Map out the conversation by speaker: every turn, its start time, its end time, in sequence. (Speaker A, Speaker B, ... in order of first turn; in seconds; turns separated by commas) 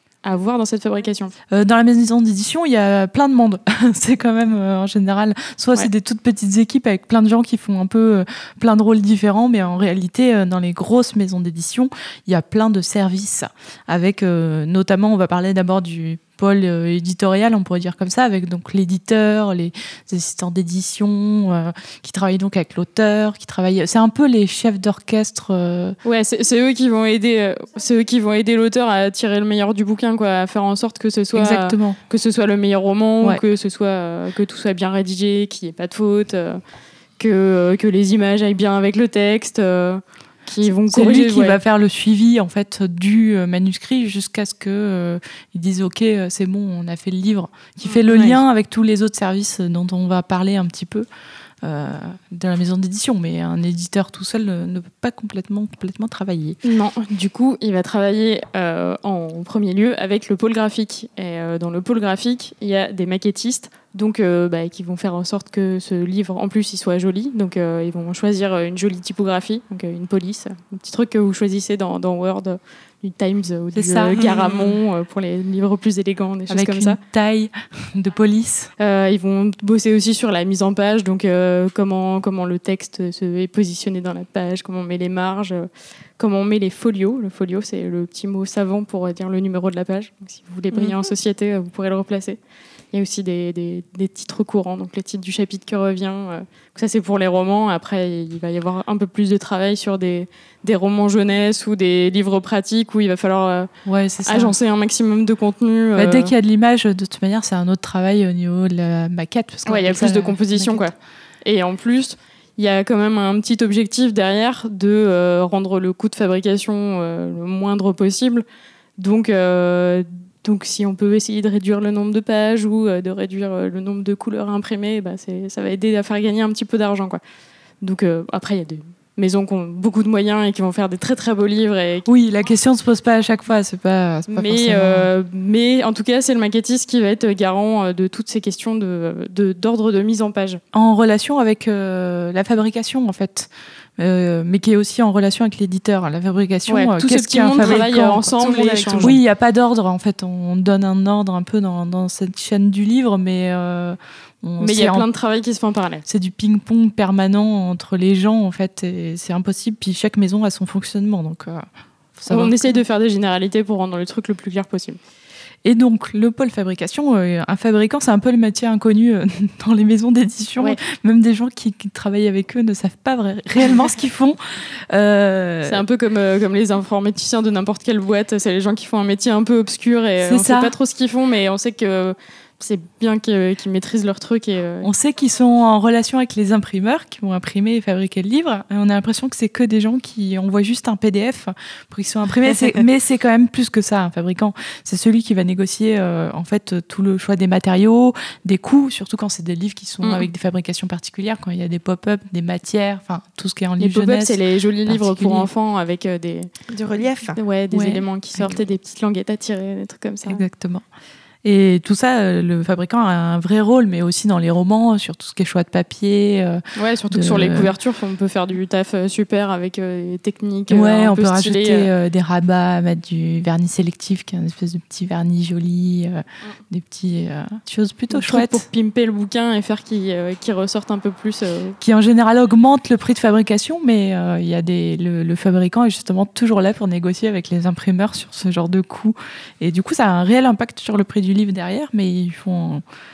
Speaker A: 0.2-1.3, Speaker B: 1.5-26.0, Speaker A: 26.0-36.6, Speaker B: 31.3-32.0, Speaker A: 37.2-41.6, Speaker B: 40.6-51.1, Speaker B: 51.6-56.6, Speaker A: 56.6-77.0, Speaker B: 73.7-74.2, Speaker C: 74.2-74.7, Speaker B: 76.5-78.7, Speaker A: 78.8-85.7, Speaker A: 86.2-92.4, Speaker A: 92.9-103.7, Speaker B: 103.8-104.5, Speaker A: 104.2-106.3, Speaker B: 106.0-110.9, Speaker A: 109.7-110.9, Speaker A: 111.4-118.4, Speaker A: 119.0-127.2, Speaker A: 127.8-132.1, Speaker B: 132.1-135.1, Speaker A: 134.3-140.6, Speaker B: 140.7-148.4, Speaker A: 146.7-149.2, Speaker C: 148.4-149.1, Speaker B: 148.9-155.1, Speaker A: 154.6-156.0, Speaker B: 156.1-162.8, Speaker A: 162.3-165.0, Speaker B: 165.6-175.8, Speaker A: 175.6-184.9, Speaker B: 180.2-180.7, Speaker B: 184.8-205.5, Speaker A: 200.0-200.3, Speaker A: 203.8-206.5, Speaker C: 206.7-207.4, Speaker A: 207.3-210.4, Speaker B: 207.7-208.6, Speaker B: 210.3-210.8, Speaker B: 211.4-217.7, Speaker A: 216.8-221.9, Speaker B: 220.7-228.6, Speaker A: 228.1-231.8, Speaker B: 231.8-242.8